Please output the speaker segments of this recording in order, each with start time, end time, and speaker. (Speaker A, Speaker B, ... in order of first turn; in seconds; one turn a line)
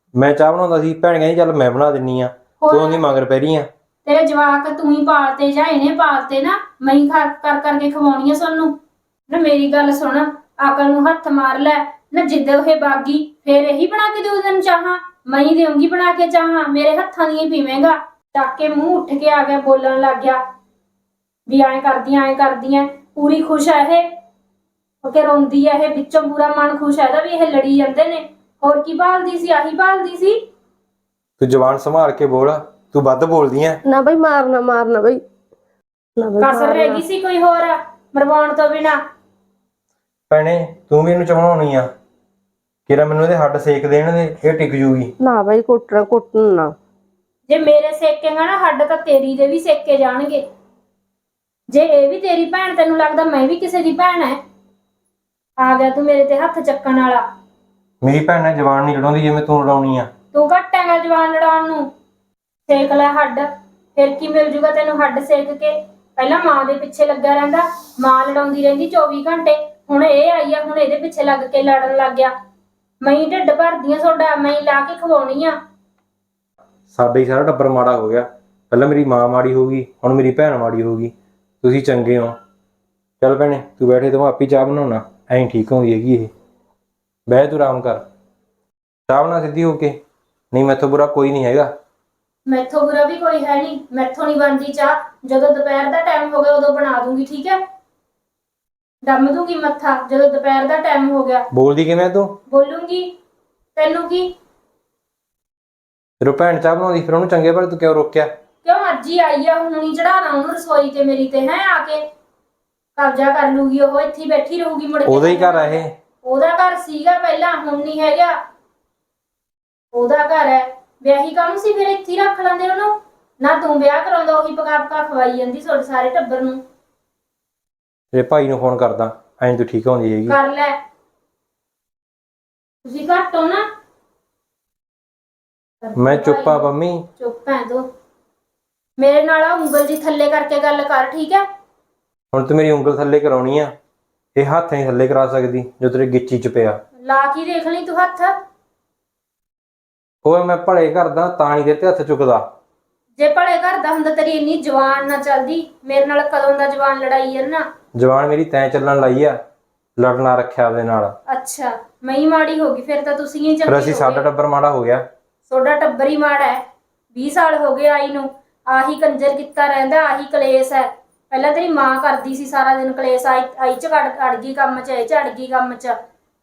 Speaker A: 0.1-3.7
Speaker B: 2.6-3.0
Speaker B: 4.0-8.8
Speaker B: 9.3-20.4
Speaker B: 21.5-24.1
Speaker B: 25.0-30.4
Speaker A: 31.4-33.8
Speaker C: 33.9-35.2
Speaker C: 36.2-37.0
Speaker B: 36.4-39.0
Speaker A: 40.3-41.9
Speaker A: 42.9-45.1
Speaker C: 45.2-46.8
Speaker B: 47.5-50.4
Speaker B: 51.7-54.4
Speaker B: 55.6-57.3
Speaker A: 58.0-60.1
Speaker B: 60.3-61.9
Speaker B: 62.7-72.3
Speaker B: 73.0-75.6
Speaker A: 76.9-82.4
Speaker A: 83.2-86.3
Speaker A: 87.3-88.0
Speaker A: 89.1-90.0
Speaker A: 90.5-91.7
Speaker B: 92.5-97.6
Speaker B: 99.0-101.5
Speaker A: 101.5-102.4
Speaker B: 102.5-103.2
Speaker B: 103.8-104.3
Speaker A: 106.2-108.3
Speaker B: 108.7-112.0
Speaker B: 113.0-118.4
Speaker A: 115.1-115.9
Speaker B: 119.9-126.6
Speaker A: 128.1-130.4
Speaker B: 130.3-130.8
Speaker B: 132.8-133.7
Speaker B: 135.8-137.9
Speaker A: 136.0-137.1
Speaker B: 139.0-141.5
Speaker A: 142.3-143.7
Speaker A: 144.3-146.8
Speaker B: 147.0-148.4
Speaker A: 150.2-152.5
Speaker B: 153.2-157.7
Speaker A: 157.9-159.4
Speaker A: 160.0-161.2
Speaker B: 161.3-164.2
Speaker A: 163.7-165.1
Speaker B: 165.5-166.6
Speaker B: 167.1-176.0